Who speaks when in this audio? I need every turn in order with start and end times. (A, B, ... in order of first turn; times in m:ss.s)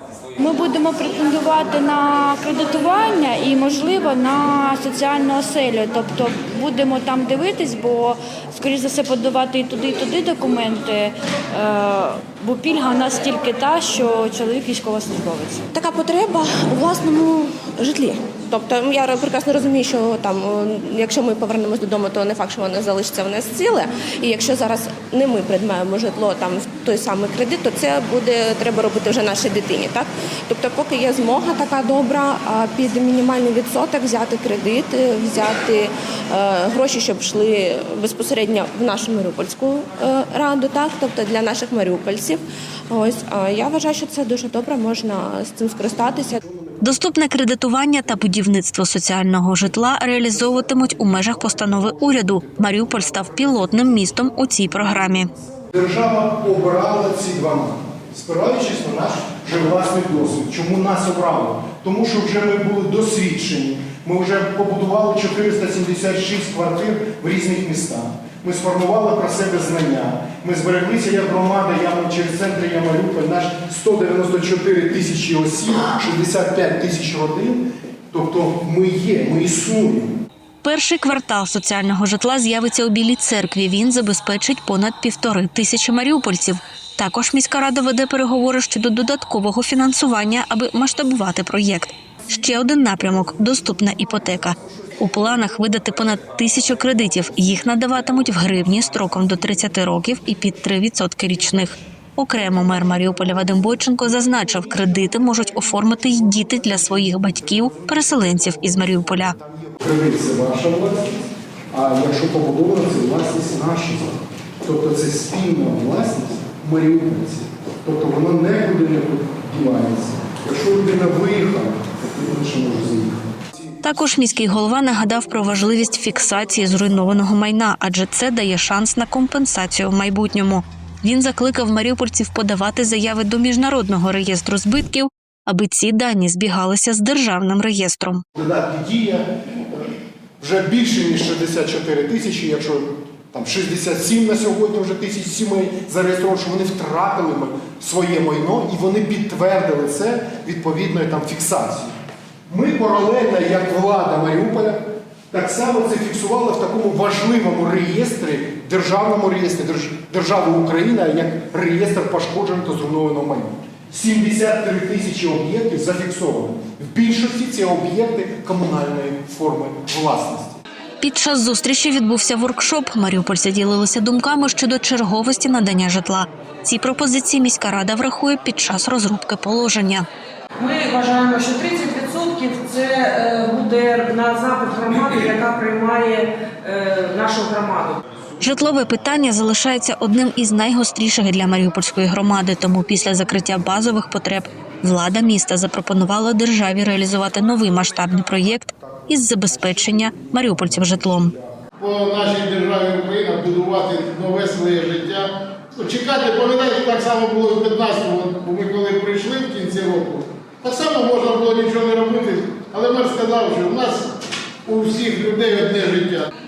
0:00.4-0:15.6 A
0:15.7-0:46.4 B
0:46.8-0:55.3 C
0:50.8-1:20.1 D
1:20.6-1:49.4 C
1:38.4-1:40.2 D
1:45.0-2:03.3 D
2:03.8-2:18.2 C
2:18.4-2:19.9 D
2:20.4-2:31.9 D
2:32.5-2:50.6 D
2:51.0-3:00.1 C
3:00.6-3:08.0 E
3:08.4-3:21.3 C
3:22.5-3:25.2 F
3:26.4-3:29.9 F
3:30.8-3:33.0 F
3:35.0-3:36.2 F